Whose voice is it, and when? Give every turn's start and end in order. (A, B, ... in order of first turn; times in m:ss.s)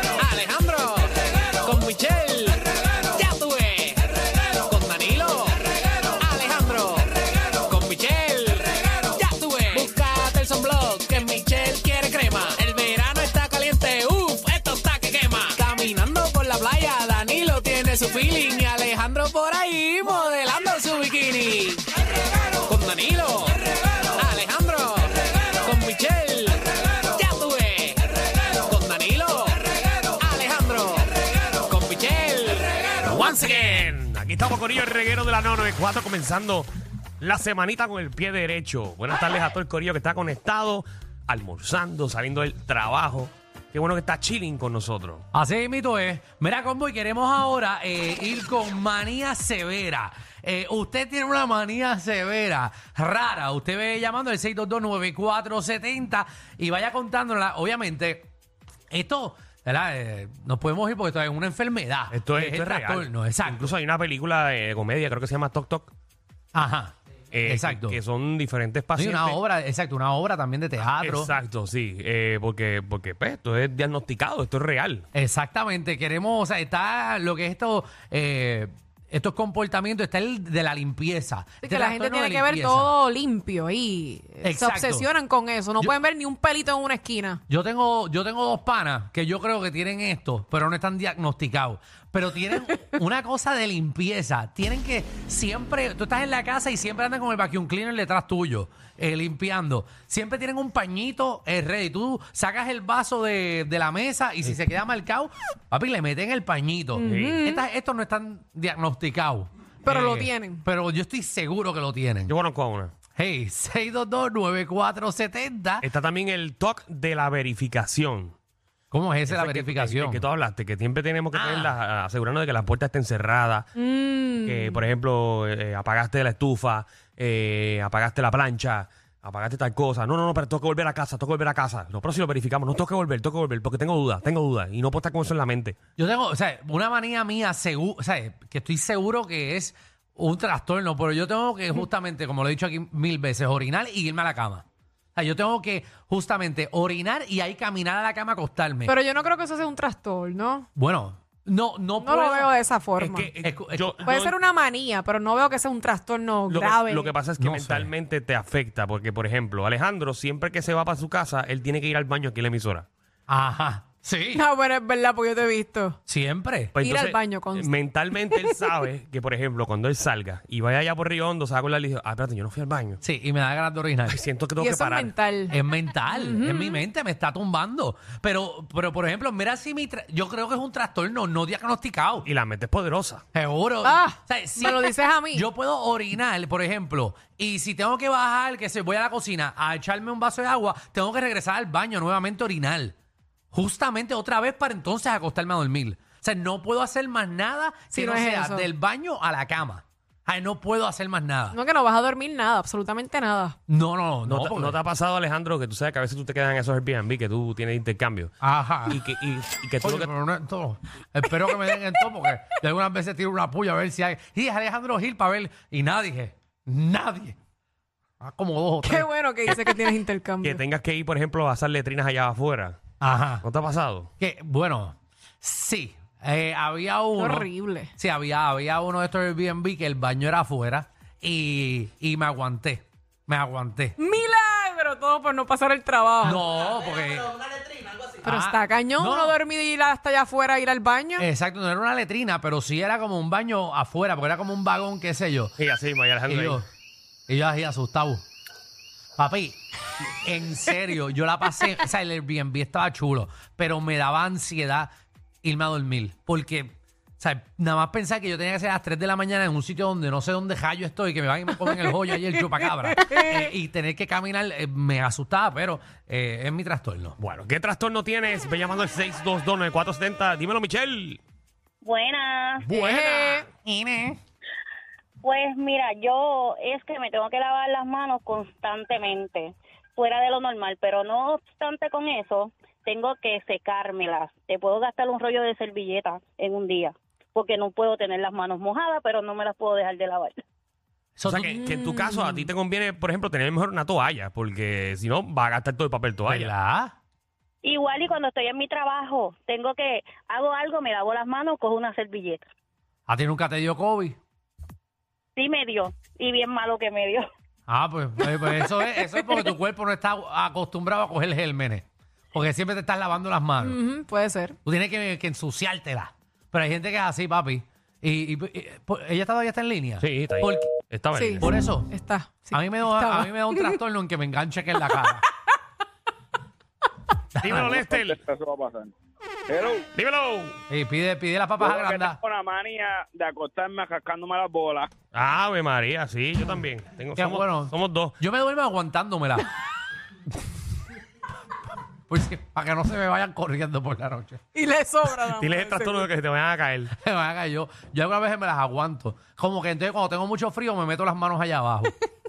0:00.2-0:21.9 A
0:22.6-0:28.0 A
0:28.6-0:33.9 A
0:33.0-0:36.7 B
0:37.2-0:45.2 B
0:45.3-0:58.3 C
0:58.9-1:03.7 C
1:02.1-1:05.9 B
1:06.5-1:08.0 C
1:07.3-1:09.4 B
1:09.0-1:11.3 C
1:10.8-1:15.1 B
1:15.1-1:23.0 C
1:21.6-1:27.4 D
1:24.4-1:25.1 C
1:27.5-1:52.4 C
1:47.0-1:47.6 D
1:47.0-1:47.4 B
1:49.8-1:50.6 D
1:52.3-1:52.9 B
1:53.2-1:55.9 C
1:55.8-1:58.3 B
1:58.9-2:00.3 C
1:59.3-2:03.7 B
2:01.3-2:01.8 C
2:03.8-2:04.8 D
2:04.4-2:15.8 B
2:16.0-2:24.6 C
2:25.2-2:29.0 C
2:28.8-2:30.7 D
2:30.8-2:32.6 C
2:32.0-2:33.3 D
2:33.0-2:34.3 B
2:33.4-2:34.1 C
2:34.0-2:37.1 D
2:36.5-2:42.9 B
2:37.4-2:37.9 C
2:43.3-2:44.5 C
2:44.3-2:46.0 D
2:46.1-2:46.7 C
2:46.7-2:53.0 B
2:46.8-2:47.8 D
2:53.0-2:54.2 C
2:54.1-2:55.1 B
2:54.6-2:56.8 D
2:55.5-3:02.3 C
3:02.2-3:03.2 B
3:03.3-3:12.9 C
3:03.8-3:05.5 D
3:13.5-3:21.6 C
3:17.9-3:18.7 D
3:21.5-3:23.6 D
3:23.7-3:24.8 C
3:24.2-3:28.3 B
3:28.4-3:29.0 C
3:28.9-3:30.1 B
3:29.8-3:37.4 C
3:38.2-3:39.1 C
3:38.8-3:40.6 D
3:39.5-3:39.7 B
3:40.4-3:42.8 B
3:43.0-3:43.5 C
3:43.4-3:44.1 B
3:44.2-3:54.0 C
3:47.2-3:47.9 D
3:54.0-3:56.4 D
3:56.2-3:57.4 C
3:58.2-4:01.3 D
3:58.2-3:59.4 C
4:01.2-4:05.6 C
4:05.6-4:06.6 B
4:06.3-4:06.6 C
4:07.3-4:08.2 C
4:09.2-4:14.9 C
4:15.4-4:27.2 C
4:27.2-4:31.2 B
4:31.8-4:32.6 E
4:32.6-4:34.2 C
4:32.7-4:33.5 D
4:35.2-4:50.4 E
4:51.2-4:51.7 C
4:51.3-4:56.5 B
4:51.6-4:52.5 D
4:56.3-4:56.9 C
4:57.6-5:02.5 E
5:03.1-5:04.2 C
5:05.4-5:07.3 E
5:07.7-5:13.8 C
5:13.6-5:14.6 D
5:14.6-5:20.7 C
5:20.0-5:21.5 B
5:21.2-5:23.8 D
5:21.4-5:21.9 C
5:22.5-5:25.2 C
5:27.4-5:27.8 C
5:27.4-5:28.2 B
5:27.9-5:28.9 F
5:29.5-5:29.8 F
5:30.0-5:30.6 B
5:30.7-5:32.2 C
5:31.6-5:34.9 F
5:35.1-5:38.2 B
5:37.2-5:39.5 C
5:42.1-5:44.4 C
5:44.5-5:46.1 D
5:45.4-5:46.9 B
5:46.9-5:51.9 C